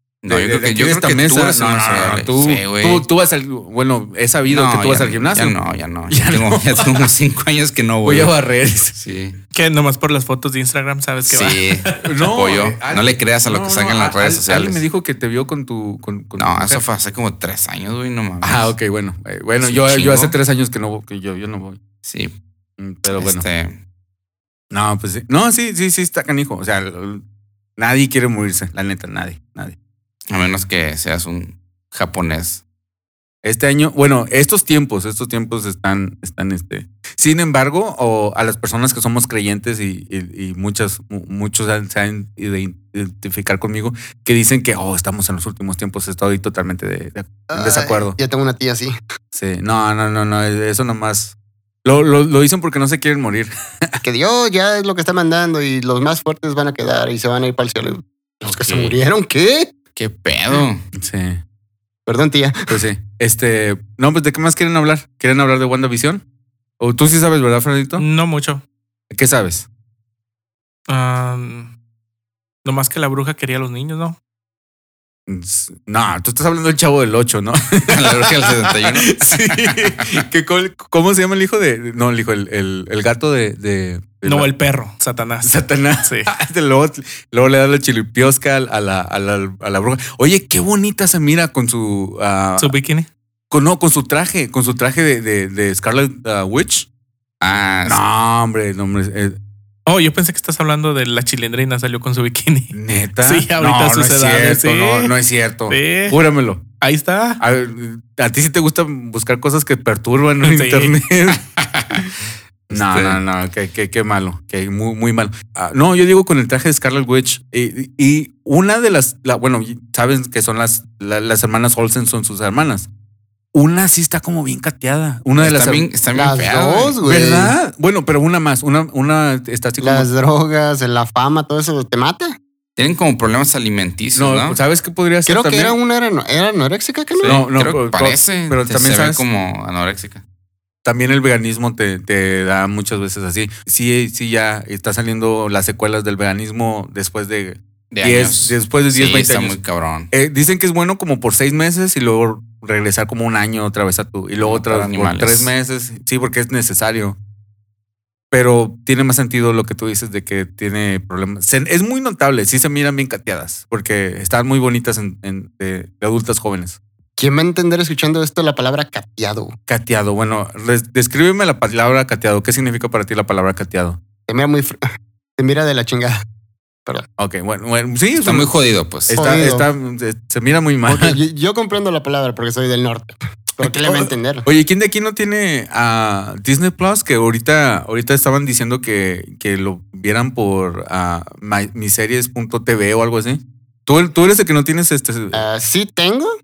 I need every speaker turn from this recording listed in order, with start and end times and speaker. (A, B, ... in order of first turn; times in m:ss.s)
0:00.2-0:03.0 A
0:00.3-0:07.1 B
0:04.5-0:08.3 A
0:08.0-0:09.0 B
0:08.9-0:09.4 A
0:09.5-0:12.1 C
0:11.3-0:14.8 A
0:12.0-0:16.8 B
0:16.4-0:18.7 A
0:18.4-0:21.8 B
0:19.6-0:20.4 A
0:22.0-0:22.4 A
0:22.8-0:23.4 B
0:23.1-0:23.8 A
0:24.7-0:27.2 B
0:27.8-0:29.8 B
0:30.3-0:32.6 A
0:33.4-0:48.2 B
0:47.5-0:49.0 D
0:49.3-0:54.0 B
0:54.0-0:59.7 D
0:58.5-0:59.0 A
1:00.0-1:00.8 A
1:01.0-1:01.4 B
1:02.1-1:02.8 D
1:02.7-1:06.2 B
1:06.8-1:08.0 B
1:08.0-1:08.6 C
1:09.1-1:09.7 B
1:10.9-1:11.7 C
1:12.6-1:14.2 C
1:15.3-1:24.5 B
1:17.9-1:20.2 A
1:24.2-1:26.3 C
1:25.4-1:32.7 B
1:32.6-1:33.1 C
1:33.5-1:36.9 B
1:37.4-1:38.0 A
1:37.8-1:39.4 B
1:39.9-1:45.1 C
1:42.7-1:46.6 B
1:45.7-1:46.2 C
1:46.8-1:47.4 C
1:47.4-1:51.4 B
1:50.4-1:51.0 C
1:51.6-1:52.1 A
1:52.7-2:02.9 B
1:52.7-1:53.2 A
2:03.5-2:05.9 B
2:05.4-2:07.0 A
2:06.1-2:07.6 D
2:07.0-2:10.1 B
2:09.8-2:12.4 D
2:12.8-2:14.6 A
2:14.2-2:15.8 B
2:15.3-2:17.4 D
2:17.1-2:20.2 A
2:17.2-2:19.2 B
2:20.8-2:29.6 B
2:27.9-2:30.1 A
2:30.1-2:37.2 B
2:34.4-2:35.5 A
2:38.3-2:46.8 B
2:47.2-2:49.6 D
2:49.7-2:54.0 B
2:54.3-2:54.8 D
2:55.4-2:56.2 D
2:57.2-2:58.5 B
2:58.2-2:59.2 A
2:59.0-3:01.2 B
2:59.1-2:59.7 D
3:00.9-3:04.5 D
3:03.6-3:15.4 B
3:15.3-3:16.4 D